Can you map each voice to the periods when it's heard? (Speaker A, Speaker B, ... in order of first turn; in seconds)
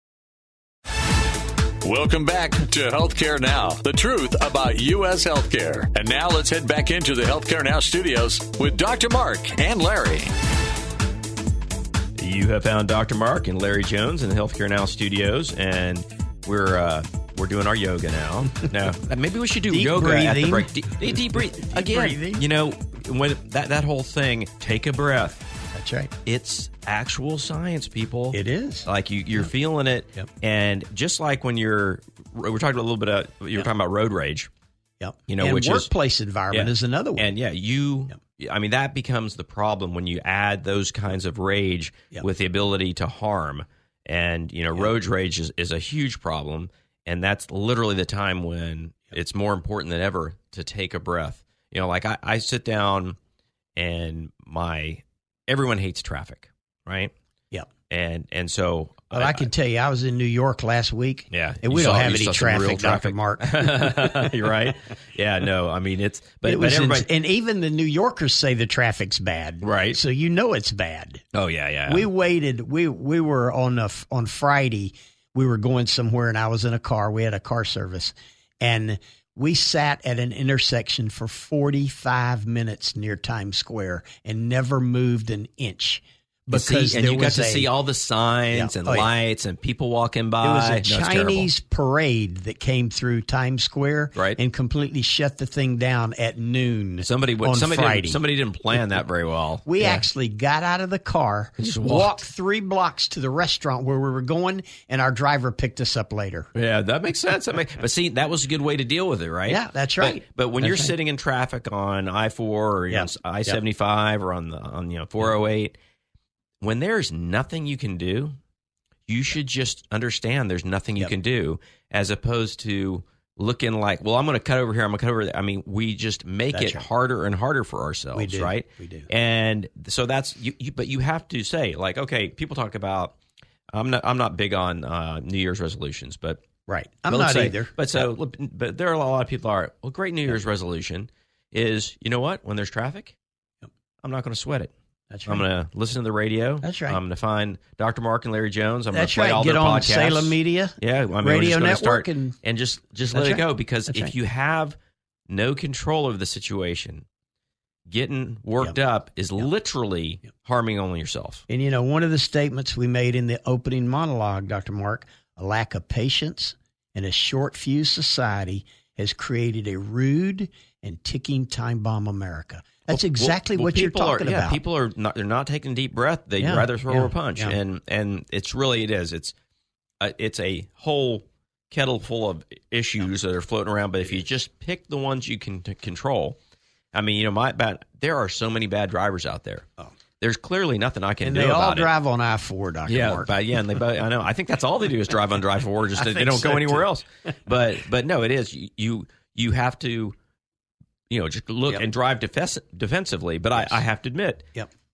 Speaker A: 1.8-10.3
Speaker B: 12.2-25.4, 26.3-34.5, 35.3-35.9, 36.5-53.2, 53.8-57.1, 57.9-59.5, 61.3-67.1, 69.6-70.0, 71.3-72.1, 86.5-91.5, 97.0-100.0, 101.6-102.2, 106.5-115.7, 116.6-118.4, 119.1-133.2, 133.7-136.4, 137.1-143.2, 144.0-144.7, 145.3-154.8, 155.3-157.1, 157.9-161.4, 172.9-179.3, 180.0-186.4, 186.9-189.7, 190.2-191.9, 192.9-200.2, 201.1-204.5
Speaker C: 19.7-22.4, 25.7-26.1, 28.3-28.9, 35.0-37.3, 59.1-64.3, 66.5-71.2, 71.9-87.7, 88.5-89.1, 90.4-98.2, 99.7-106.5, 109.5-110.9, 112.9-113.6, 126.5-126.8, 128.2-129.1, 136.7-138.0, 145.1-145.4, 146.6-147.0, 148.9-152.4, 153.1-154.1, 161.5-174.6, 176.4-177.6, 191.2-193.3, 196.0-196.9